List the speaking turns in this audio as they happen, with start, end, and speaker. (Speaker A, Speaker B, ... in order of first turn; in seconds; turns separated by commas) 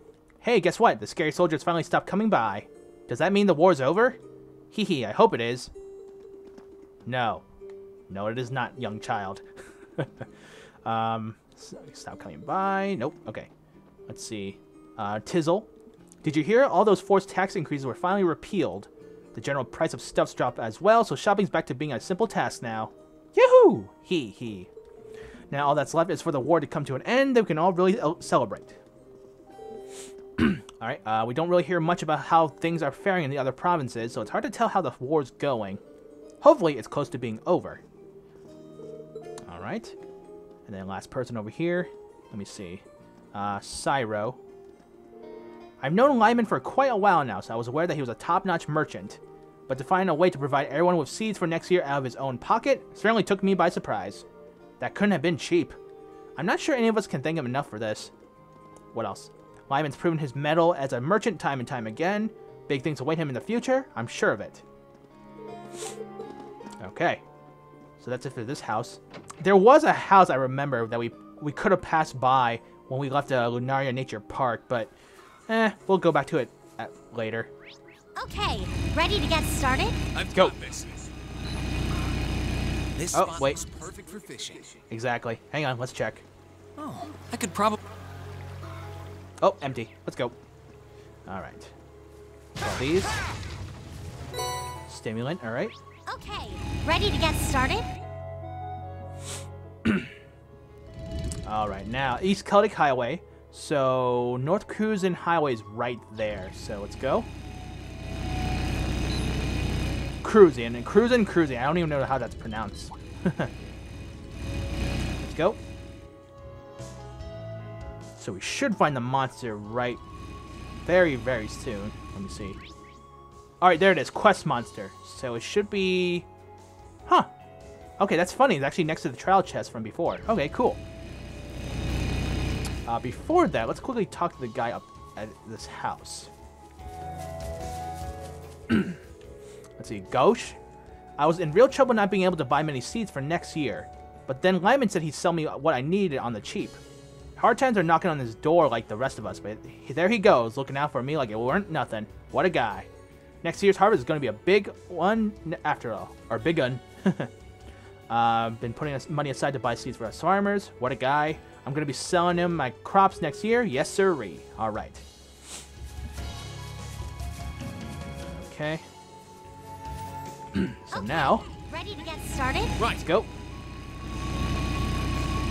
Speaker A: 0.4-4.2, Speaker A: 4.7-5.7, Speaker A: 7.1-7.4, Speaker A: 8.1-9.4, Speaker A: 10.0-10.3, Speaker A: 10.8-13.5, Speaker A: 14.1-15.7, Speaker A: 16.2-24.7, Speaker A: 25.5-28.8, Speaker A: 30.4-35.8, Speaker A: 36.4-37.8, Speaker A: 39.5-40.0, Speaker A: 40.7-44.4, Speaker A: 45.8-54.2, Speaker A: 54.8-55.8, Speaker A: 56.4-58.1, Speaker A: 58.9-64.6, Speaker A: 66.8-67.2, Speaker A: 68.0-74.9, Speaker A: 75.5-77.5, Speaker B: 78.2-80.0, Speaker C: 80.1-81.0, Speaker C: 83.0-84.8, Speaker A: 83.1-83.6, Speaker A: 84.9-86.2, Speaker C: 86.8-87.8, Speaker A: 89.4-90.3, Speaker A: 91.3-91.7, Speaker A: 92.6-93.2, Speaker A: 94.9-95.7, Speaker B: 96.1-97.9, Speaker A: 99.8-100.1, Speaker A: 101.5-107.3, Speaker A: 110.2-113.5, Speaker A: 115.2-115.6, Speaker A: 118.2-120.0, Speaker A: 120.8-122.6, Speaker A: 123.6-126.3, Speaker A: 128.0-130.8, Speaker A: 132.9-136.3, Speaker A: 138.7-139.0, Speaker A: 139.8-140.6, Speaker A: 141.2-146.8, Speaker A: 147.4-152.9, Speaker A: 153.4-157.3, Speaker A: 158.1-165.1, Speaker A: 168.3-168.8, Speaker A: 170.5-171.5, Speaker B: 170.9-172.8, Speaker C: 172.8-173.0, Speaker A: 173.0-173.3